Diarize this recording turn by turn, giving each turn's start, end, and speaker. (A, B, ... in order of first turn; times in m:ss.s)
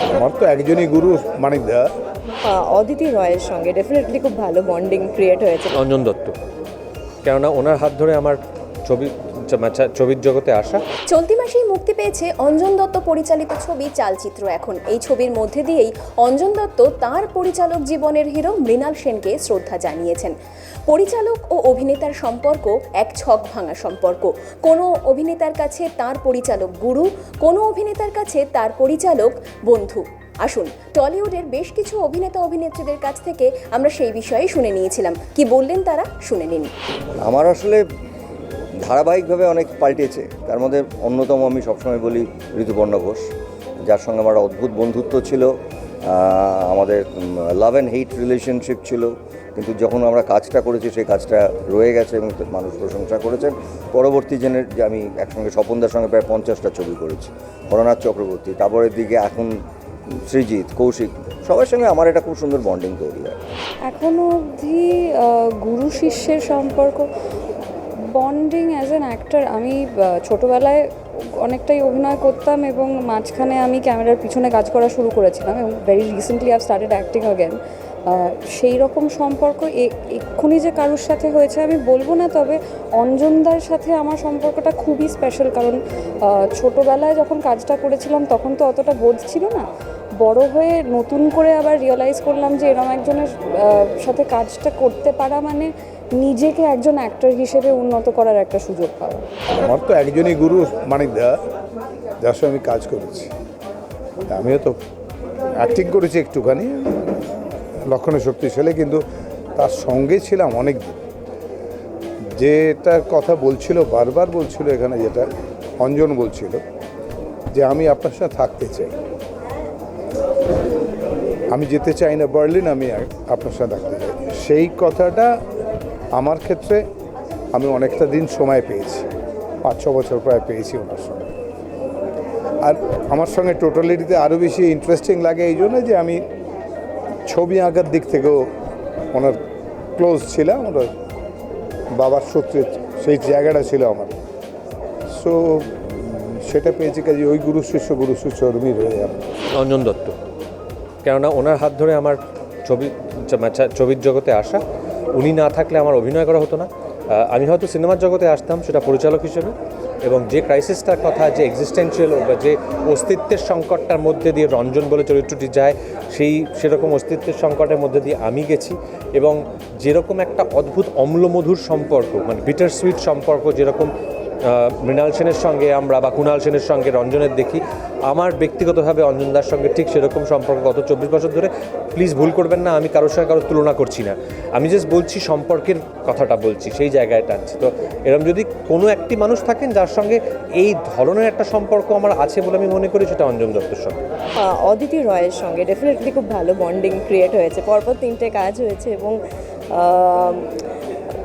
0:00.1-0:01.8 A
0:02.4-0:05.7 B
0:05.7-0:06.3 C
0:07.2-0:10.8 C
0:11.1-0:20.3 D
0:20.9-0:36.7 D
0:37.2-0:37.8 E
0:38.8-0:43.3 E
0:43.9-0:45.5 E
0:46.1-0:59.6 E
1:00.3-1:03.4 E
1:03.9-1:07.1 F
1:08.1-1:10.8 F
1:11.4-1:29.7 F
1:30.2-1:39.3 F
1:39.6-1:41.4 A
1:42.2-1:43.3 A
1:44.3-1:44.8 A
1:45.6-1:46.9 A
1:47.9-1:49.0 A
1:49.6-1:51.0 A
1:52.4-1:55.2 A
1:55.8-1:56.6 A
1:57.5-1:58.9 A
2:01.5-2:05.3 A
2:06.1-2:06.8 A
2:07.5-2:09.1 A
2:09.6-2:11.3 A
2:12.6-2:16.2 A
2:17.3-2:18.5 A
2:19.1-2:19.4 A
2:20.0-2:20.9 A
2:21.9-2:24.2 A
2:25.1-2:29.4 A
2:29.5-2:30.2 C
2:31.0-2:34.6 C
2:35.1-2:53.9 C
2:54.4-3:14.0 C
3:14.4-3:19.2 B
3:19.7-3:20.6 B